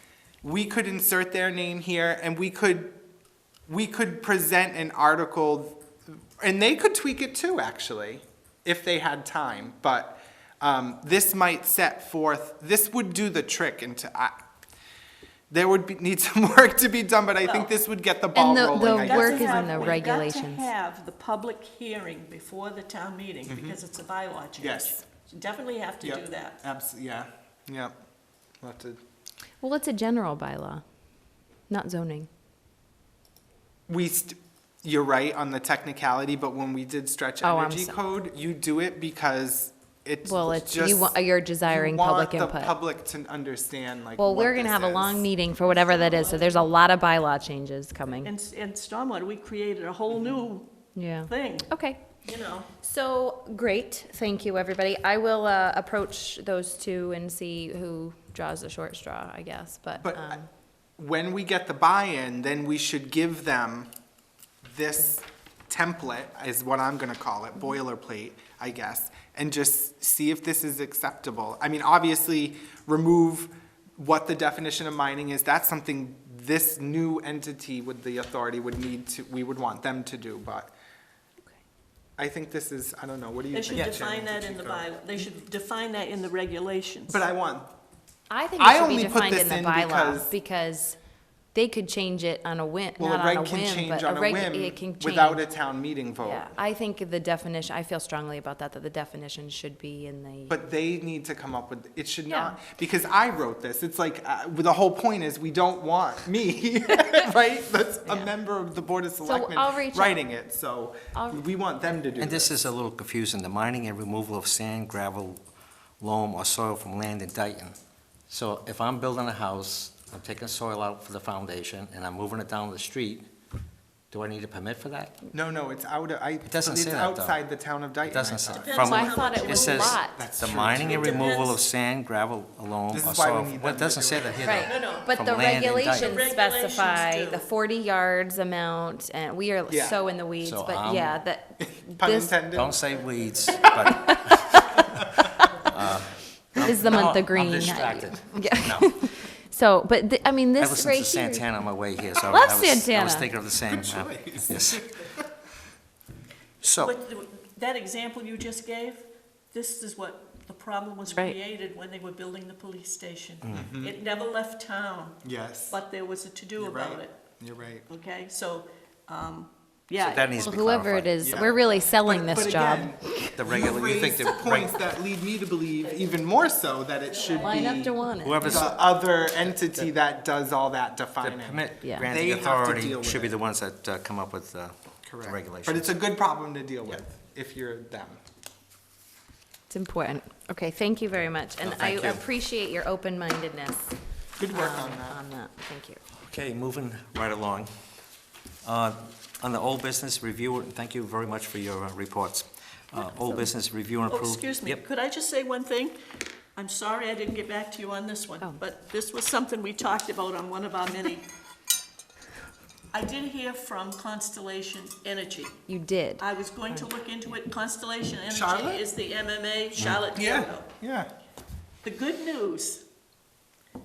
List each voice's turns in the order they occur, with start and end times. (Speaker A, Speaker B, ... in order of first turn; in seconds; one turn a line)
Speaker A: 0.4-3.0
Speaker A: 3.7-5.8
Speaker A: 6.4-14.3
Speaker A: 15.5-20.1
Speaker B: 17.4-17.7
Speaker C: 18.4-20.6
Speaker B: 18.8-26.6
Speaker A: 23.5-23.8
Speaker A: 24.6-25.0
Speaker A: 26.0-27.9
Speaker A: 28.6-29.0
Speaker C: 29.6-30.8
Speaker C: 31.7-32.3
Speaker A: 33.9-45.3
Speaker C: 37.4-38.0
Speaker C: 40.2-42.8
Speaker C: 44.2-48.3
Speaker B: 45.6-46.7
Speaker B: 48.2-50.7
Speaker C: 51.0-52.0
Speaker B: 51.3-51.7
Speaker B: 52.2-52.7
Speaker C: 52.8-60.4
Speaker A: 60.0-60.5
Speaker A: 61.0-63.9
Speaker A: 64.6-80.7
Speaker A: 82.2-84.9
Speaker B: 83.5-87.2
Speaker A: 87.1-87.7
Speaker C: 88.3-91.0
Speaker A: 88.6-90.3
Speaker C: 91.5-95.4
Speaker A: 93.0-96.5
Speaker C: 96.2-100.6
Speaker A: 100.5-112.6
Speaker C: 102.3-102.6
Speaker C: 108.1-108.3
Speaker C: 109.2-110.3
Speaker C: 111.1-111.4
Speaker D: 112.2-115.4
Speaker D: 116.0-117.8
Speaker D: 118.3-123.3
Speaker D: 124.1-125.2
Speaker A: 125.3-131.4
Speaker D: 126.5-127.4
Speaker D: 128.1-136.1
Speaker B: 128.5-130.1
Speaker C: 128.8-130.3
Speaker B: 130.9-131.6
Speaker A: 132.9-134.7
Speaker C: 134.4-142.4
Speaker B: 134.5-135.1
Speaker B: 135.9-137.5
Speaker A: 139.7-140.0
Speaker D: 140.4-141.2
Speaker A: 141.6-142.8
Speaker D: 142.5-144.6
Speaker C: 143.9-144.8
Speaker D: 145.6-148.9
Speaker C: 146.6-151.5
Speaker D: 150.6-154.8
Speaker C: 152.2-153.3
Speaker A: 153.7-155.3
Speaker D: 156.6-156.9
Speaker B: 156.8-167.1
Speaker D: 163.4-163.7
Speaker A: 163.5-163.9
Speaker A: 165.2-165.8
Speaker A: 166.6-167.9
Speaker B: 167.9-170.5
Speaker D: 170.0-171.1
Speaker C: 170.4-173.4
Speaker A: 171.2-183.3
Speaker D: 173.4-174.8
Speaker B: 177.2-177.7
Speaker C: 177.3-178.7
Speaker D: 178.2-178.8
Speaker D: 179.4-179.9
Speaker D: 181.2-185.9
Speaker C: 181.8-182.1
Speaker A: 185.1-188.2
Speaker C: 189.7-193.9
Speaker D: 191.6-192.2
Speaker A: 194.4-195.2
Speaker C: 194.5-196.0
Speaker D: 196.2-197.7
Speaker D: 198.6-204.8
Speaker C: 202.9-203.4
Speaker B: 204.1-206.0
Speaker B: 206.6-211.3
Speaker B: 212.9-215.6
Speaker C: 215.7-216.9
Speaker B: 216.2-220.7
Speaker A: 218.3-218.8
Speaker A: 220.1-221.1
Speaker B: 221.8-222.8